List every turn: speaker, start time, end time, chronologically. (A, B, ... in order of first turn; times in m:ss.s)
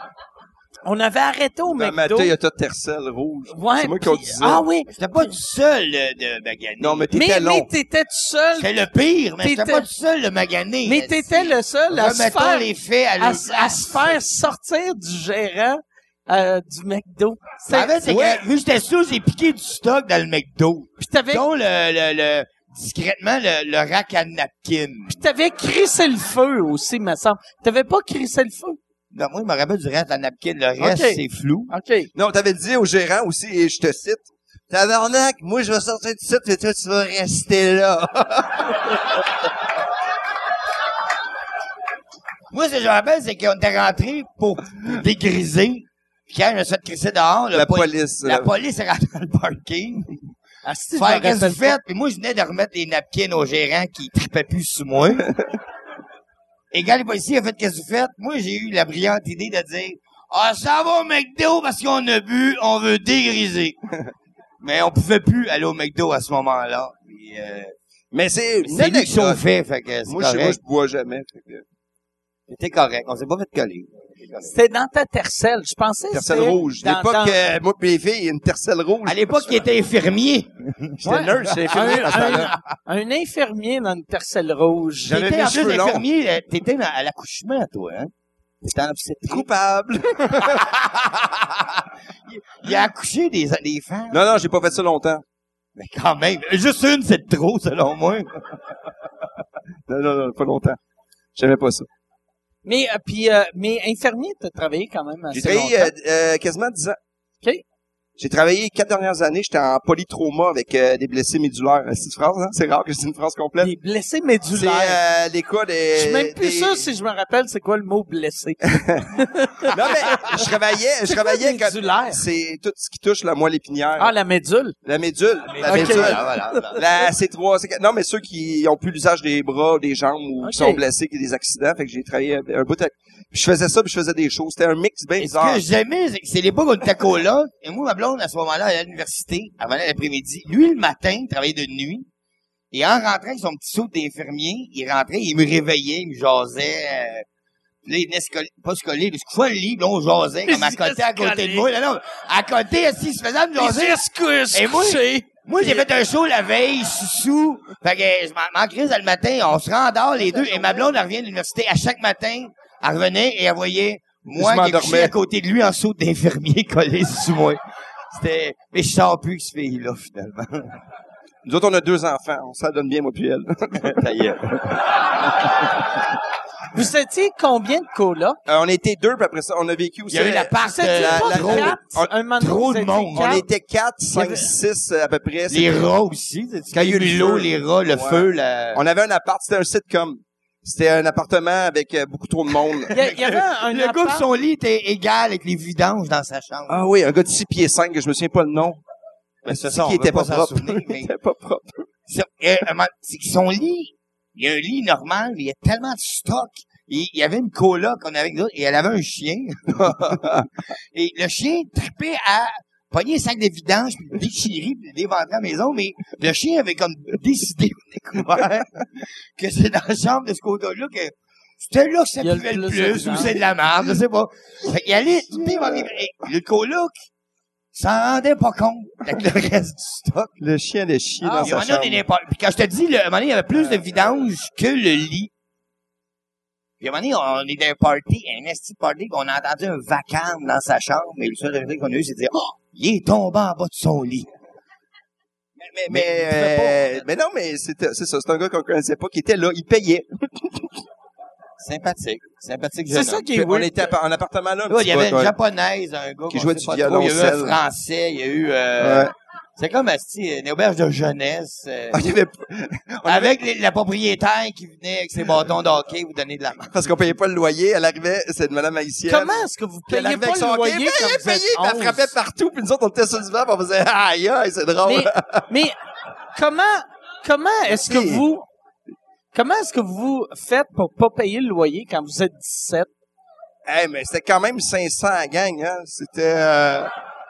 0:00.8-0:02.3 A
0:01.7-0:04.6 B
0:03.5-0:05.4 A
0:04.9-0:07.1 C
0:06.8-0:07.7 B
0:07.1-0:08.8 A
0:08.6-0:14.1 C
0:09.4-0:09.9 A
0:10.8-0:18.4 A
0:17.7-0:25.2 C
0:21.0-0:21.4 A
0:25.1-0:28.8 A
0:29.1-0:31.7 C
0:30.8-0:32.1 A
0:32.2-0:38.8 B
0:42.5-0:50.1 C
0:47.5-0:48.5 B
0:50.6-0:51.8 A
0:51.0-0:55.3 C
0:56.7-1:03.8 C
1:04.6-1:07.8 C
1:08.1-1:09.4 B
1:08.6-1:10.6 C
1:10.1-1:11.6 B
1:12.5-1:14.6 C
1:14.5-1:17.4 A
1:16.1-1:19.7 B
1:19.0-1:22.6 C
1:21.0-1:22.5 B
1:21.0-1:25.3 A
1:25.0-1:26.0 B
1:25.1-1:29.5 C
1:29.3-1:30.7 B
1:30.4-1:34.2 C
1:34.1-1:35.2 B
1:35.8-1:38.6 C
1:39.9-1:40.8 B
1:41.4-1:41.9 B
1:42.6-1:45.9 A
1:45.3-1:47.0 B
1:48.2-1:53.7 B
1:53.6-1:55.0 A
1:54.5-1:56.9 B
1:56.0-2:00.5 A
1:58.7-1:59.1 B
1:59.6-2:04.1 B
2:01.1-2:02.2 A
2:04.0-2:04.8 A
2:04.8-2:15.6 B
2:05.4-2:06.9 C
2:05.6-2:06.7 A
2:10.4-2:10.8 A
2:15.2-2:22.1 C
2:22.7-2:27.3 C
2:27.8-2:50.8 C
2:30.5-2:31.7 A
2:33.6-2:35.8 A
2:44.4-2:45.1 B
2:51.4-2:54.1 B
2:53.8-2:54.8 C
2:56.7-2:58.4 A
2:58.5-3:02.1 B
3:00.1-3:01.8 C
3:00.6-3:03.4 A
3:02.4-3:03.4 C
3:03.1-3:05.9 B
3:04.2-3:04.5 A
3:05.5-3:08.8 C
3:06.7-3:12.9 B
3:12.9-3:16.8 C
3:12.9-3:14.3 A
3:16.7-3:18.8 B
3:19.4-3:21.1 C
3:19.5-3:21.9 B
3:22.1-3:30.2 C
3:29.7-3:30.5 B
3:30.9-3:46.9 C
3:42.2-3:43.4 A
3:45.4-3:45.9 B
3:47.7-3:50.3 C
3:50.4-3:52.0 B
3:51.2-3:51.6 A
3:51.4-3:55.3 C
3:53.6-3:53.8 B
3:56.8-4:04.3 C
4:05.6-4:10.8 B
4:05.9-4:07.0 C
4:11.6-4:13.3 C
4:12.9-4:14.0 A
4:13.3-4:15.3 B
4:14.7-4:22.0 C
4:16.3-4:17.6 B
4:18.8-4:19.1 B
4:21.9-4:23.4 B
4:23.1-4:26.8 C
4:26.7-4:35.5 B
4:29.1-4:32.1 A
4:34.8-4:35.8 A
4:36.4-4:38.5 A
4:37.7-4:38.3 B
4:39.3-4:42.9 A
4:43.7-4:46.9 B